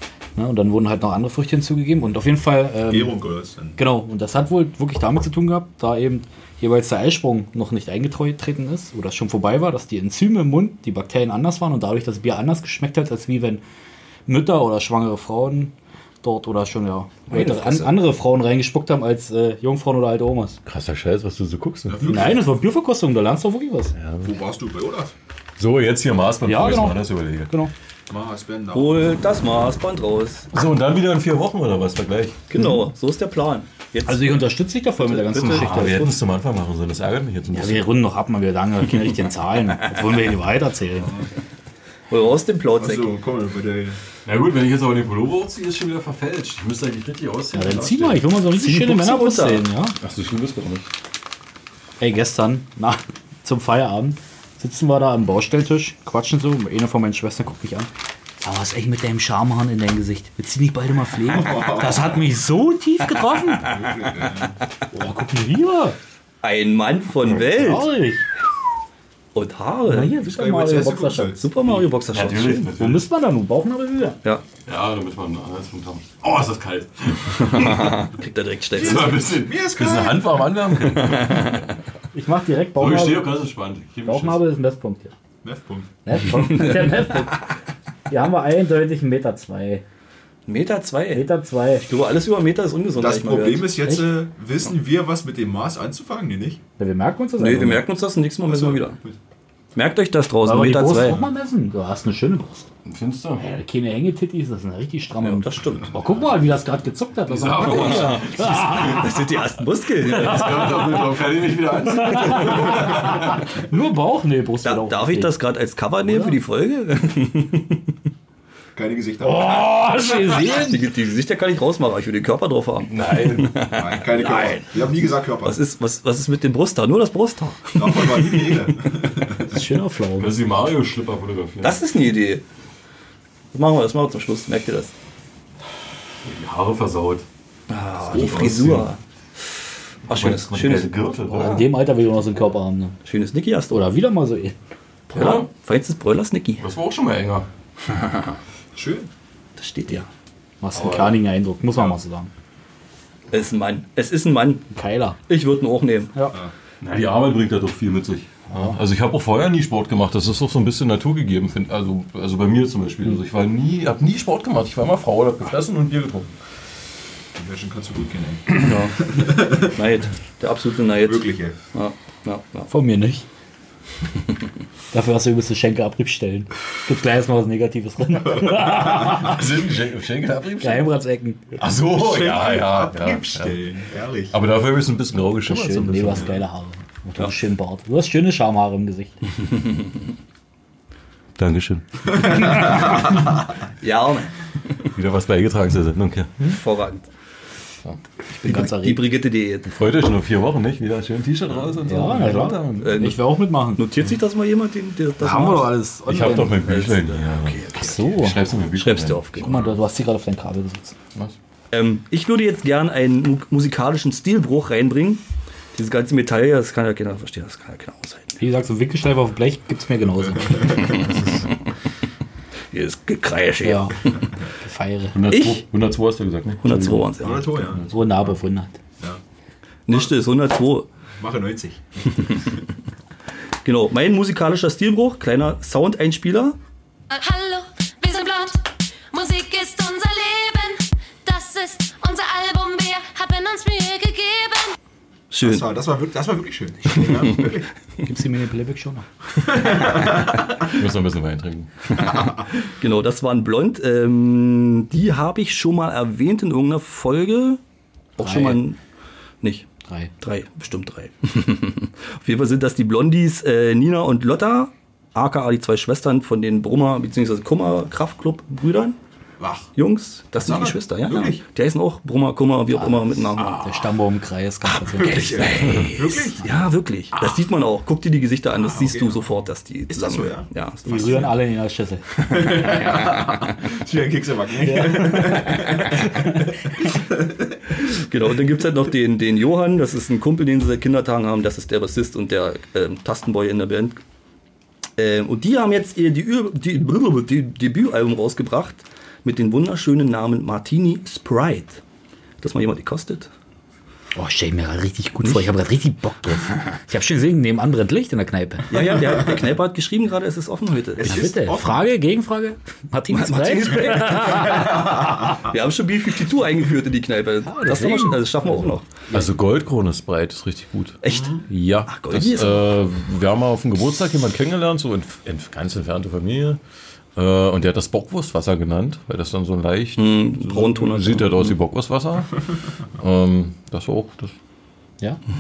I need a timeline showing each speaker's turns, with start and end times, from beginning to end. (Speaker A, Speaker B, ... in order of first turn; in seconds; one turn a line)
Speaker A: 0.4-3.2
Speaker B: 2.9-3.8
Speaker A: 3.8-13.6
Speaker A: 14.3-20.6
Speaker C: 17.3-17.9
Speaker D: 20.7-22.2
Speaker B: 21.9-22.5
Speaker A: 22.1-23.9
Speaker D: 24.0-24.3
Speaker B: 24.2-25.1
Speaker D: 25.6-27.5
Speaker A: 26.4-27.7
Speaker B: 28.1-29.1
Speaker C: 28.7-30.5
Speaker D: 30.5-32.4
Speaker C: 32.5-34.4
Speaker A: 32.5-32.8
Speaker A: 34.1-36.2
Speaker C: 35.0-36.1
Speaker D: 35.3-37.9
Speaker A: 37.5-41.1
Speaker C: 42.1-43.1
Speaker B: 42.8-44.0
Speaker D: 44.3-48.3
Speaker A: 47.5-50.0
Speaker C: 48.5-49.6
Speaker D: 50.0-50.9
Speaker A: 52.0-63.8
Speaker B: 61.2-62.2
Speaker B: 63.6-64.6
Speaker A: 64.9-66.0
Speaker C: 66.4-67.9
Speaker A: 67.5-68.2
Speaker C: 69.3-70.2
Speaker A: 69.9-71.4
Speaker B: 70.2-71.6
Speaker C: 71.3-72.7
Speaker D: 72.1-73.1
Speaker A: 72.8-74.2
Speaker D: 74.7-78.1
Speaker C: 77.5-79.2
Speaker B: 78.8-80.5
Speaker D: 78.8-81.6
Speaker C: 80.8-81.6
Speaker A: 82.1-83.4
Speaker D: 82.8-84.4
Speaker A: 84.0-85.1
Speaker B: 85.4-85.9
Speaker A: 86.1-87.5
Speaker C: 86.3-87.2
Speaker A: 88.1-89.8
Speaker C: 90.5-91.3
Speaker A: 91.1-91.9
Speaker C: 91.8-93.8
Speaker B: 93.0-96.6
Speaker A: 96.8-97.8
Speaker C: 97.4-99.0
Speaker B: 98.5-99.2
Speaker C: 99.8-101.2
Speaker A: 100.4-102.7
Speaker D: 102.9-103.5
Speaker A: 103.4-109.2
Speaker C: 105.2-105.9
Speaker D: 107.3-109.2
Speaker C: 107.6-111.1
Speaker D: 110.0-113.4
Speaker A: 112.0-115.3
Speaker C: 114.6-117.9
Speaker A: 116.0-116.4
Speaker B: 118.8-119.7
Speaker A: 119.2-120.8
Speaker C: 120.1-128.7
Speaker D: 122.9-123.7
Speaker B: 123.7-125.6
Speaker B: 127.8-129.6
Speaker A: 129.4-130.3
Speaker D: 130.2-131.8
Speaker C: 131.6-132.4
Speaker C: 133.5-134.9
Speaker D: 136.2-137.3
Speaker C: 137.7-139.0
Speaker D: 138.0-138.9
Speaker B: 138.2-138.5
Speaker C: 140.1-140.9
Speaker D: 140.1-141.8
Speaker A: 141.3-143.0
Speaker C: 143.1-143.8
Speaker A: 143.7-144.6
Speaker C: 145.1-146.6
Speaker D: 145.1-145.5
Speaker D: 146.6-147.5
Speaker B: 148.7-149.1
Speaker C: 149.6-150.1
Speaker A: 150.6-152.3
Speaker D: 150.8-151.2
Speaker C: 153.3-154.7
Speaker A: 154.7-155.2
Speaker C: 155.3-156.1
Speaker D: 156.8-166.3
Speaker A: 158.5-158.8
Speaker B: 167.3-169.8
Speaker C: 168.5-172.7
Speaker B: 171.0-171.6
Speaker A: 172.7-173.3
Speaker A: 174.9-179.4
Speaker B: 178.1-179.3
Speaker D: 178.7-180.9
Speaker A: 180.6-181.6
Speaker D: 181.6-183.6
Speaker B: 181.8-184.4
Speaker D: 184.3-186.4
Speaker A: 185.4-189.2
Speaker D: 191.4-192.9
Speaker B: 192.3-193.3
Speaker C: 193.8-194.9
Speaker D: 195.0-196.4
Speaker C: 196.4-197.1
Speaker A: 198.3-199.1
Speaker C: 198.4-199.7
Speaker D: 199.7-202.9
Speaker A: 201.8-203.9
Speaker C: 202.8-205.8
Speaker A: 205.2-206.6
Speaker D: 206.1-209.8
Speaker C: 206.3-209.6
Speaker A: 207.7-208.4
Speaker A: 209.4-211.0
Speaker C: 211.7-215.2
Speaker C: 215.8-218.4
Speaker A: 218.4-221.0
Speaker B: 220.2-221.1
Speaker C: 220.8-221.6
Speaker D: 220.9-221.5
Speaker C: 222.7-224.2
Speaker A: 223.6-224.0
Speaker A: 224.6-225.2
Speaker D: 225.1-227.0
Speaker C: 225.3-225.6
Speaker C: 226.6-227.5
Speaker B: 227.2-227.9
Speaker A: 227.3-228.8
Speaker C: 229.9-230.9
Speaker B: 231.2-232.5
Speaker C: 232.2-232.5
Speaker C: 233.6-236.6
Speaker E: 237.1-244.8
Speaker C: 245.3-245.7
Speaker B: 245.4-247.7
Speaker C: 247.0-247.5
Speaker A: 248.0-249.1
Speaker B: 249.4-250.7
Speaker D: 250.6-251.7
Speaker C: 252.0-257.6
Speaker B: 252.1-252.4
Speaker C: 258.2-258.8
Speaker A: 258.2-258.6
Speaker C: 259.4-259.7
Speaker A: 259.9-260.1
Speaker C: 260.2-269.0
Speaker B: 269.4-269.7
Speaker C: 269.8-273.8
Speaker B: 270.4-271.4
Speaker A: 272.8-275.8
Speaker B: 274.9-276.5
Speaker C: 275.0-281.4
Speaker B: 278.6-279.3
Speaker B: 279.9-280.5
Speaker A: 280.9-282.8
Speaker B: 282.3-287.6
Speaker C: 282.3-283.4
Speaker A: 284.6-286.5
Speaker C: 287.8-294.0
Speaker C: 295.0-301.8
Speaker C: 302.4-303.3
Speaker A: 304.1-308.9
Speaker C: 305.2-305.5
Speaker C: 308.7-311.1
Speaker B: 311.0-311.9
Speaker A: 311.0-315.3
Speaker C: 313.1-318.9
Speaker B: 313.9-315.5
Speaker A: 317.4-319.3
Speaker D: 319.1-321.0
Speaker C: 321.0-322.8
Speaker B: 321.1-321.4
Speaker D: 321.5-326.6
Speaker D: 327.2-334.3
Speaker C: 330.0-331.6